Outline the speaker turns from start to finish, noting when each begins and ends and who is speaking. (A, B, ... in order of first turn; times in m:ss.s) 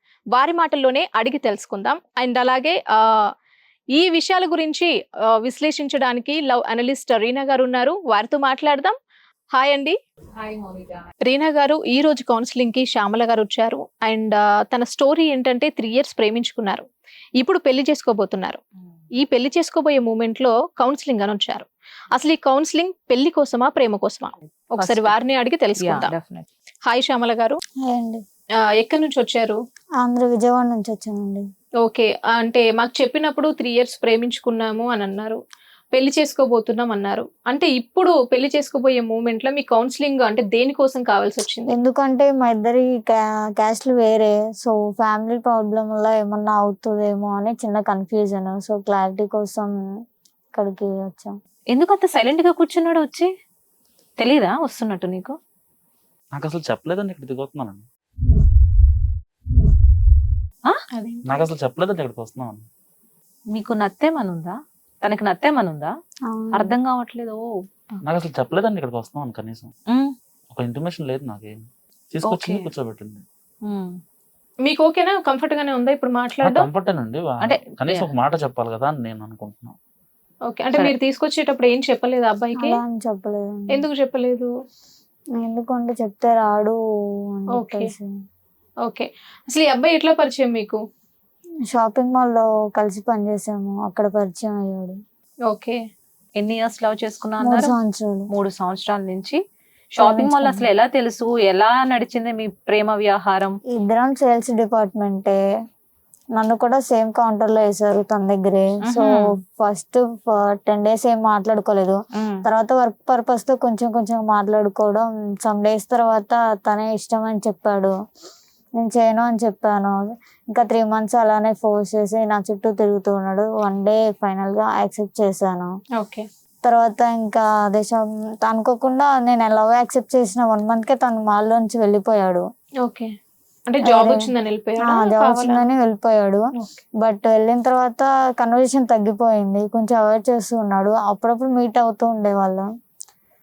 0:00.4-0:02.8 A
0:04.0-0:04.9 A
0:05.4-0:09.0 A
0:09.5-0:10.0 A
0:10.4-0:11.1 B
0:11.2-0:16.8 A
0:17.4-0:18.6 A
0:19.2-0:26.1 A
0:24.8-0:25.1 B
0:25.8-0:26.5 B
0:26.9-0:27.6 A
0:27.9-0:28.2 C
0:28.8-0:29.6 A
0:30.0-0:31.4 C
0:31.8-0:35.4 A
0:35.9-0:41.7 A
0:41.7-0:49.7 C
0:50.5-0:51.3 C
0:51.7-0:53.3 B
0:54.2-0:55.4 B
0:56.3-0:57.9 D
1:00.9-1:01.5 A
1:01.3-1:02.7 D
1:03.5-1:05.9 B
1:06.3-1:06.7 C
1:06.5-1:07.4 B
1:08.0-1:09.7 D
1:09.9-1:10.1 B
1:10.5-1:13.2 D
1:12.2-1:12.7 B
1:13.7-1:14.0 B
1:14.7-1:16.7 A
1:16.4-1:19.8 D
1:17.4-1:18.1 B
1:20.5-1:22.8 A
1:22.6-1:23.8 C
1:23.7-1:24.5 A
1:25.4-1:26.8 C
1:27.4-1:28.1 C
1:27.6-1:27.9 A
1:28.9-1:30.8 A
1:31.7-1:35.0 C
1:35.5-1:35.8 A
1:36.4-1:37.7 B
1:37.4-1:38.3 C
1:38.3-1:39.4 B
1:40.0-1:43.6 B
1:40.0-1:40.7 C
1:43.7-1:45.4 C
1:46.4-1:57.9 C
1:48.8-1:49.3 B
1:52.2-1:52.4 B
1:58.8-2:00.0 C
2:00.5-2:05.7 C
2:06.0-2:06.3 A
2:06.6-2:12.4 C
2:13.7-2:15.7 A
2:13.9-2:14.3 C
2:14.8-2:16.4 C
2:17.0-2:22.6 C